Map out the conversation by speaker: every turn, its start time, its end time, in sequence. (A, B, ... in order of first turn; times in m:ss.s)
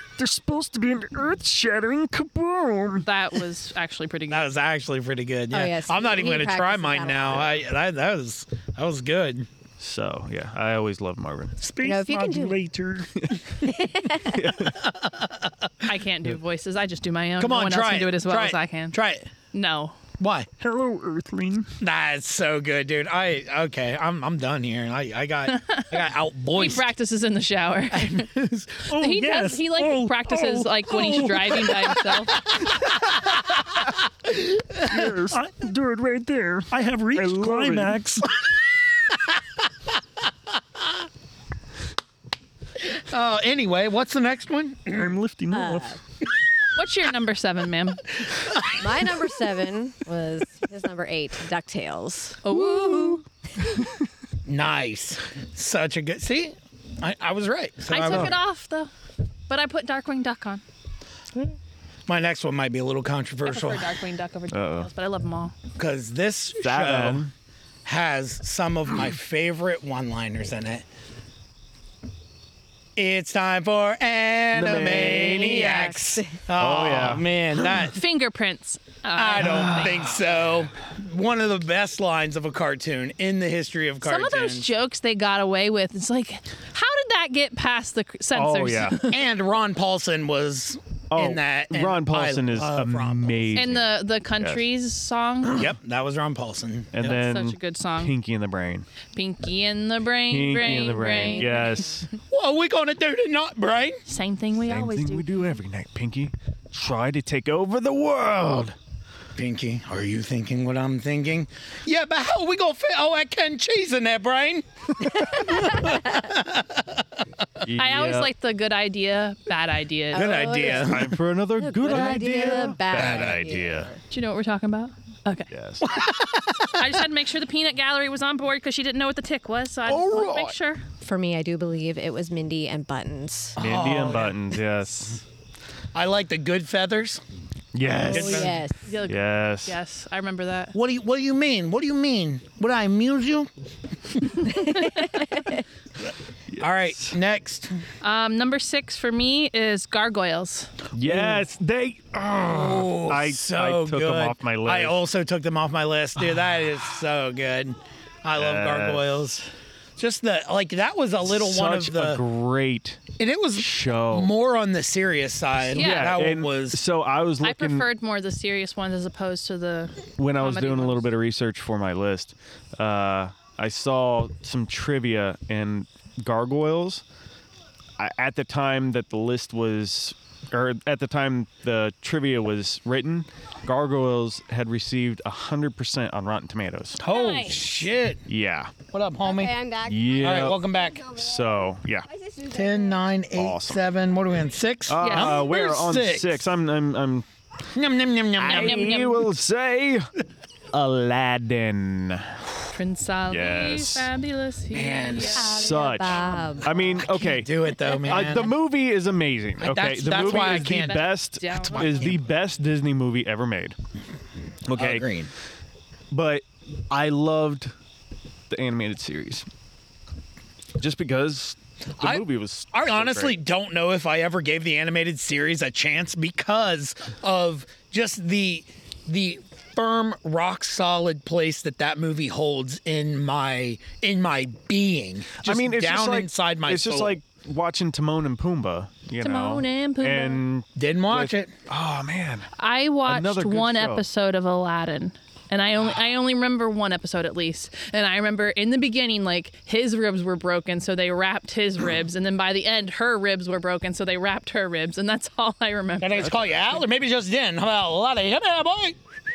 0:00.2-0:03.1 A
0:03.0-0:04.4 B
0:04.3-0:09.5 C
0:05.5-0:07.5 D
0:09.8-0:11.6 A
0:11.6-0:13.1 C
0:11.8-0:12.6 D
0:12.6-0:13.4 A
0:13.6-0:14.5 D
0:14.2-0:14.8 A
0:14.6-0:15.8 C
0:15.8-0:19.0 B
0:17.4-0:19.3 C
0:19.5-0:20.0 B
0:20.2-0:20.5 C
0:20.6-0:21.7 A
0:21.8-0:26.9 C
0:25.5-0:28.3 B
0:27.9-0:35.5 C
0:28.9-0:32.5 B
0:31.1-0:31.3 A
0:34.8-0:38.0 A
0:36.7-0:38.3 C
0:42.8-0:45.1 C
0:44.9-0:46.0 A
0:45.5-0:46.0 D
0:46.7-0:48.0 B
0:48.4-0:48.8 C
0:48.7-0:52.6 D
0:52.4-0:53.2 B
0:54.4-0:58.4 C
0:57.9-0:58.9 B
0:58.0-0:58.3 A
0:59.5-1:00.6 B
1:02.1-1:03.9 C
1:03.4-1:05.5 B
1:04.5-1:04.9 A
1:05.7-1:07.3 C
1:06.6-1:07.3 A
1:07.8-1:10.8 C
1:13.0-1:18.0 C
1:14.5-1:15.8 A
1:15.1-1:16.3 D
1:16.6-1:17.2 A
1:17.9-1:20.1 B
1:19.1-1:24.7 C
1:19.4-1:20.1 A
1:24.0-1:29.2 B
1:28.3-1:29.0 A
1:29.1-1:33.6 C
1:31.1-1:34.6 A
1:33.5-1:35.7 B
1:35.5-1:37.2 C
1:36.9-1:38.9 A
1:37.0-1:38.1 B
1:39.1-1:41.9 B
1:40.3-1:42.1 A
1:42.3-1:44.0 C
1:44.1-1:45.6 B
1:44.7-1:48.7 A
1:49.4-1:57.0 C
1:57.6-1:58.3 A
1:57.8-2:00.5 B
2:00.1-2:04.0 D
2:00.1-2:01.1 C
2:00.6-2:03.9 A
2:02.9-2:03.5 C
2:04.1-2:05.5 B
2:05.5-2:05.8 A
2:05.8-2:06.8 C
2:06.7-2:10.8 B
2:09.9-2:10.5 A
2:11.0-2:13.6 D
2:13.6-2:14.4 C
2:13.6-2:15.2 A
2:15.9-2:17.2 C
2:17.7-2:19.8 A
2:18.0-2:18.6 C
2:18.1-2:18.8 D
2:18.8-2:20.7 B
2:20.7-2:23.5 C
2:24.1-2:25.0 C
2:26.5-2:27.1 A
2:26.6-2:27.8 C
2:28.0-2:30.7 B
2:30.9-2:35.0 A
2:31.0-2:31.4 C
2:32.4-2:42.2 C
2:38.4-2:39.2 A
2:41.2-2:43.0 A
2:43.2-2:46.8 C
2:43.6-2:44.3 A
2:45.6-2:47.9 A
2:45.7-2:46.2 B
2:47.4-2:51.1 B
2:50.2-2:57.0 A
2:58.0-3:07.0 A
3:07.0-3:07.7 B
3:07.0-3:08.2 C
3:08.3-3:08.7 A
3:08.9-3:09.5 C
3:09.2-3:10.5 D
3:09.8-3:12.1 A
3:10.2-3:11.1 C
3:12.1-3:12.9 D
3:12.5-3:16.5 C
3:13.3-3:13.8 A
3:14.9-3:17.2 A
3:15.0-3:15.4 B
3:17.7-3:19.0 C
3:18.4-3:20.1 A
3:18.4-3:19.3 B
3:20.7-3:22.4 A
3:22.7-3:25.6 B
3:23.3-3:24.1 A
3:24.7-3:25.6 C
3:25.2-3:27.0 D
3:25.4-3:33.7 A
3:27.0-3:28.5 C
3:29.6-3:31.0 C
3:30.2-3:32.0 B
3:31.8-3:32.3 C
3:34.6-3:35.0 A
3:34.7-3:35.3 C
3:36.1-3:37.7 A
3:38.5-3:39.5 A
3:40.8-3:43.4 A
3:42.0-3:57.2 C
3:55.4-4:02.5 A
3:59.2-4:00.4 B
4:00.8-4:01.5 C
4:02.6-4:16.7 B
4:03.0-4:04.0 A
4:16.0-4:19.0 C
4:16.2-4:16.8 A